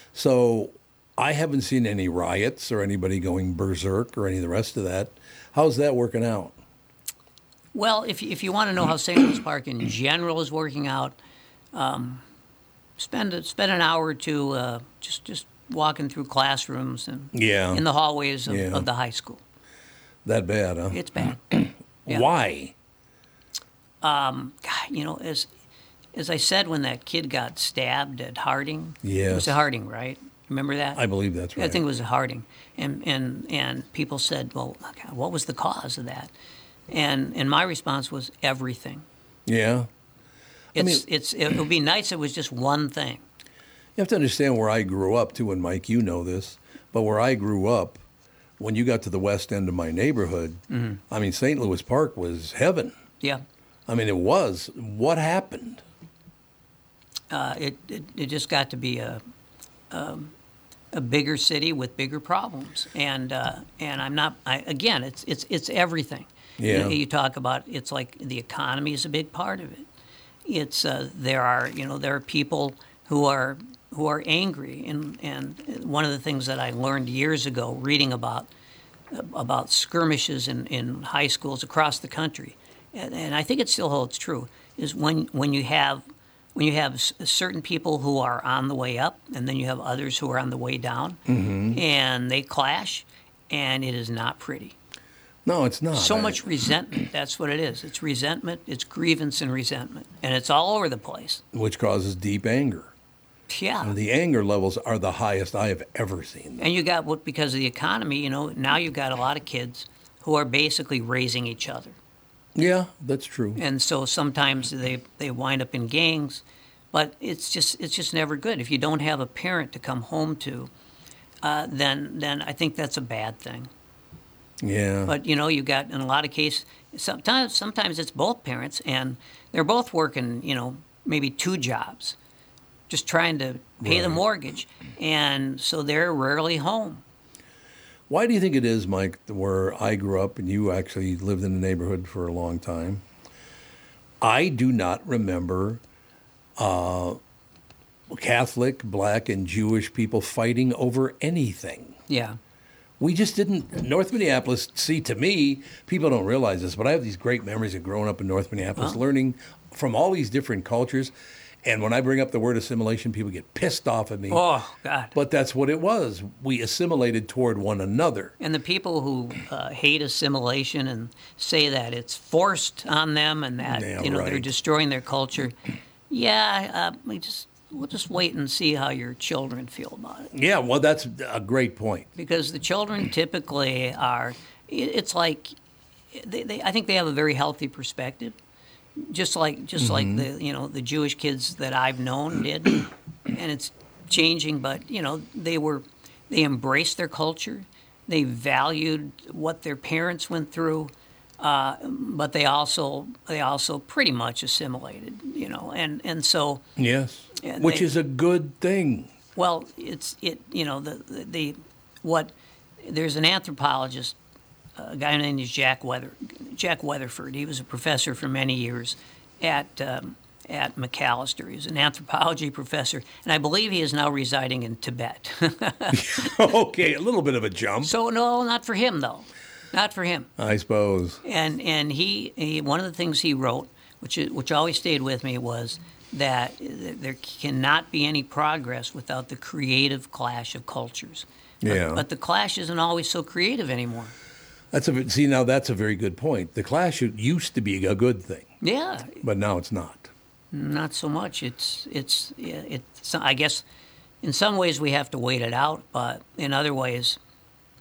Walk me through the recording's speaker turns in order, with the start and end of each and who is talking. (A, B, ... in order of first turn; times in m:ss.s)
0:00.1-0:06.6 A
0:07.7-0:11.2 B
0:11.7-0:12.2 B
0:13.0-0:19.4 B
0:17.3-0:17.8 A
0:18.5-0:18.9 A
0:20.2-0:22.7 A
0:20.9-0:21.4 B
0:24.0-0:25.5 B
0:26.1-0:31.0 B
0:29.0-0:29.6 A
0:31.0-0:31.8 A
0:31.6-0:36.3 B
0:36.9-0:39.0 B
0:39.5-0:39.9 A
0:40.8-0:41.0 A
0:40.8-0:43.2 B
0:44.0-0:48.0 A
0:48.6-0:52.9 A
0:50.7-0:51.0 B
0:53.9-0:55.8 A
0:57.3-0:59.2 B
0:59.9-1:00.3 B
1:00.9-1:09.9 B
1:06.6-1:07.0 A
1:10.5-1:18.5 B
1:19.1-1:26.0 B
1:26.6-1:31.2 B
1:31.3-1:31.8 A
1:31.7-1:34.8 B
1:35.4-1:36.6 A
1:35.9-1:41.4 B
1:41.5-1:42.9 A
1:43.5-1:43.9 B
1:43.8-1:46.6 A
1:46.6-1:52.0 B
1:52.6-1:53.6 A
1:53.6-2:00.7 B
2:01.4-2:03.7 B
2:04.6-2:05.1 A
2:05.1-2:12.2 B
2:12.9-2:17.0 B
2:13.8-2:14.2 A
2:18.1-2:23.0 A
2:24.2-2:25.8 A
2:26.6-2:27.2 A
2:28.1-2:32.0 A
2:32.1-2:32.4 B
2:33.0-2:41.1 A
2:41.6-2:44.4 A
2:44.3-2:45.1 B
2:45.2-2:48.3 A
2:48.4-2:55.6 B
2:53.6-2:54.5 A
2:56.1-3:00.3 B
3:00.3-3:02.1 A
3:02.2-3:05.5 B
3:06.1-3:08.4 B
3:09.0-3:26.6 B
3:09.8-3:10.3 A
3:26.8-3:29.1 A
3:27.4-3:27.9 B
3:29.4-3:34.2 B
3:34.8-3:46.3 B
3:45.9-3:47.9 A
3:47.8-3:50.3 B
3:50.4-3:51.2 A
3:51.2-4:04.1 B
4:01.6-4:02.0 A
4:04.7-4:08.5 A
4:08.6-4:09.2 B
4:09.2-4:10.1 A
4:10.5-4:13.6 B
4:14.2-4:17.2 B